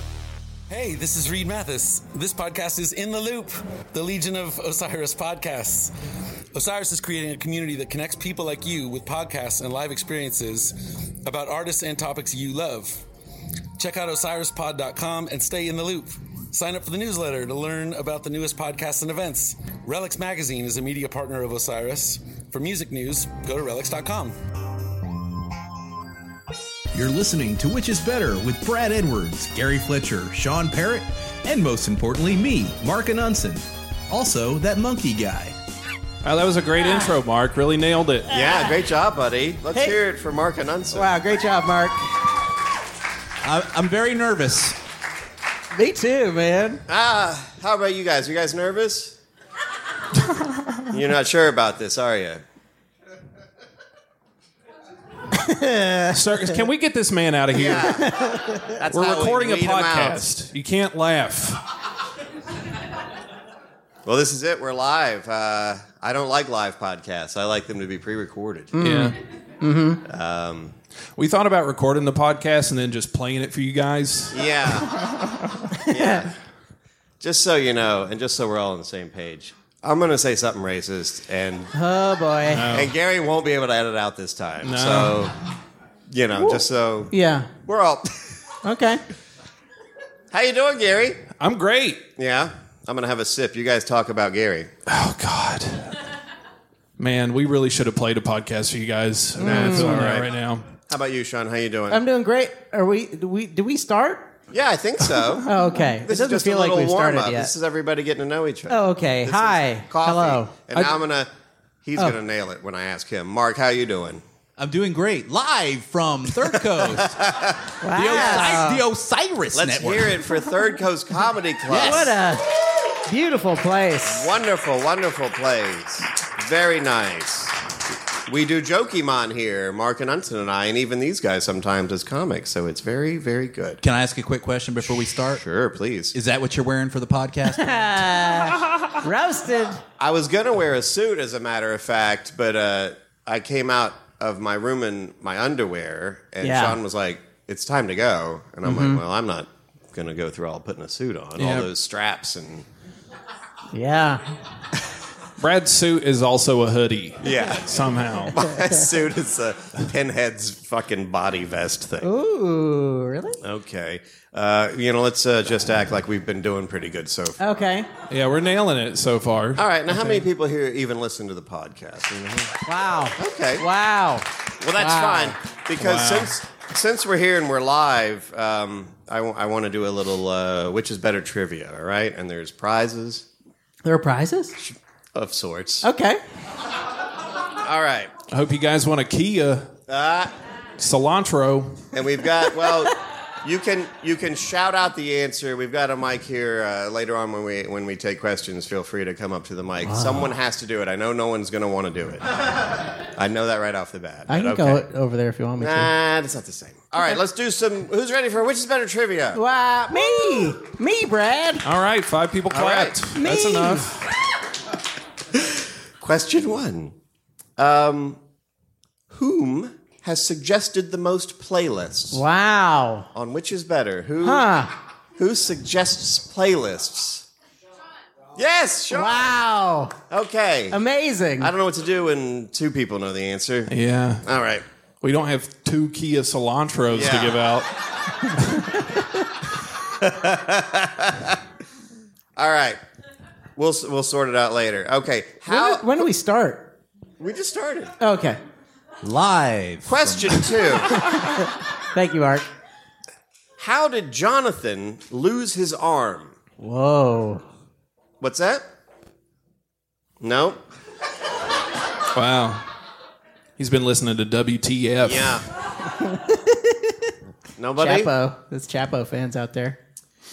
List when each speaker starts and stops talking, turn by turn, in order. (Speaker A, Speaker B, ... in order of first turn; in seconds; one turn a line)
Speaker A: 0.7-5.9
Speaker A: 6.5-13.0
Speaker A: 13.8-24.4
Speaker B: 26.9-35.5
Speaker C: 36.2-38.3
Speaker D: 38.3-41.1
Speaker E: 39.7-40.0
Speaker E: 40.9-42.0
Speaker F: 43.4-44.8
Speaker E: 45.7-46.8
Speaker D: 46.9-49.2
Speaker D: 50.9-52.4
Speaker E: 55.3-56.6
Speaker C: 56.1-58.0
Speaker D: 57.5-58.1
Speaker E: 57.7-58.8
Speaker D: 58.8-60.2
Speaker C: 58.9-61.6
Speaker D: 64.1-68.7
Speaker E: 68.7-70.0
Speaker C: 68.8-69.2
Speaker D: 70.1-70.7
Speaker C: 71.2-74.4
Speaker D: 74.3-74.9
Speaker E: 75.8-76.3
Speaker D: 75.9-76.3
Speaker D: 77.2-81.7
Speaker E: 81.7-82.7
Speaker C: 82.5-82.9
Speaker D: 82.7-85.3
Speaker C: 84.6-85.2
Speaker D: 86.1-87.1
Speaker E: 86.4-87.5
Speaker D: 87.7-88.3
Speaker E: 88.6-89.0
Speaker D: 90.3-91.2
Speaker C: 91.4-92.1
Speaker D: 92.2-94.7
Speaker C: 94.9-96.0
Speaker C: 97.0-100.7
Speaker E: 99.4-100.0
Speaker D: 99.4-100.3
Speaker D: 100.9-102.0
Speaker E: 101.9-104.3
Speaker D: 104.5-111.3
Speaker E: 105.4-107.5
Speaker E: 108.7-110.5
Speaker D: 111.8-114.2
Speaker F: 114.6-117.2
Speaker D: 116.8-118.6
Speaker E: 117.8-118.8
Speaker F: 117.9-120.2
Speaker D: 119.5-122.2
Speaker E: 121.7-124.3
Speaker D: 124.1-127.6
Speaker D: 128.3-133.8
Speaker F: 133.8-135.4
Speaker D: 135.3-136.2
Speaker F: 136.1-138.2
Speaker E: 137.6-139.8
Speaker D: 140.0-152.7
Speaker E: 146.4-146.8
Speaker E: 148.7-149.0
Speaker C: 151.4-151.7
Speaker E: 153.7-154.2
Speaker C: 155.4-158.4
Speaker D: 157.2-157.7
Speaker D: 158.3-162.1
Speaker E: 158.4-158.9
Speaker E: 162.0-163.4
Speaker D: 163.4-167.4
Speaker E: 167.4-167.9
Speaker C: 168.1-169.7
Speaker D: 169.6-172.6
Speaker E: 172.7-175.4
Speaker D: 173.2-173.7
Speaker D: 174.6-183.2
Speaker C: 175.8-176.3
Speaker E: 183.8-184.6
Speaker D: 184.6-185.9
Speaker E: 185.8-186.2
Speaker D: 187.6-188.1
Speaker C: 188.3-189.7
Speaker D: 189.9-190.3
Speaker C: 190.8-191.9
Speaker D: 191.9-202.2
Speaker E: 192.5-192.9
Speaker E: 199.8-200.3
Speaker D: 203.2-204.8
Speaker E: 204.3-205.9
Speaker D: 205.6-209.4
Speaker E: 209.3-211.7
Speaker C: 211.6-214.0
Speaker D: 212.5-213.0
Speaker E: 213.1-214.0
Speaker D: 216.0-216.9
Speaker D: 217.6-218.2
Speaker D: 219.1-222.2
Speaker E: 222.1-223.1
Speaker D: 223.1-224.5
Speaker E: 224.2-224.7
Speaker D: 225.2-227.3
Speaker D: 228.4-229.4
Speaker E: 228.9-229.9
Speaker D: 230.1-230.8
Speaker E: 230.7-231.5
Speaker D: 231.4-233.7
Speaker C: 233.7-234.2
Speaker D: 234.2-234.6
Speaker C: 235.0-238.7
Speaker D: 236.9-237.4
Speaker D: 239.9-241.4
Speaker D: 242.4-242.8
Speaker D: 243.6-245.9
Speaker E: 245.5-246.7
Speaker D: 247.2-247.9
Speaker E: 248.0-248.4
Speaker F: 249.0-250.6
Speaker D: 249.8-251.0
Speaker E: 251.8-252.4
Speaker D: 253.6-256.4
Speaker E: 256.6-257.4
Speaker D: 258.2-258.6
Speaker D: 260.2-260.6
Speaker C: 262.1-262.7
Speaker C: 263.6-265.4
Speaker D: 265.0-265.4
Speaker E: 265.8-266.9
Speaker D: 267.6-268.1
Speaker E: 267.8-269.8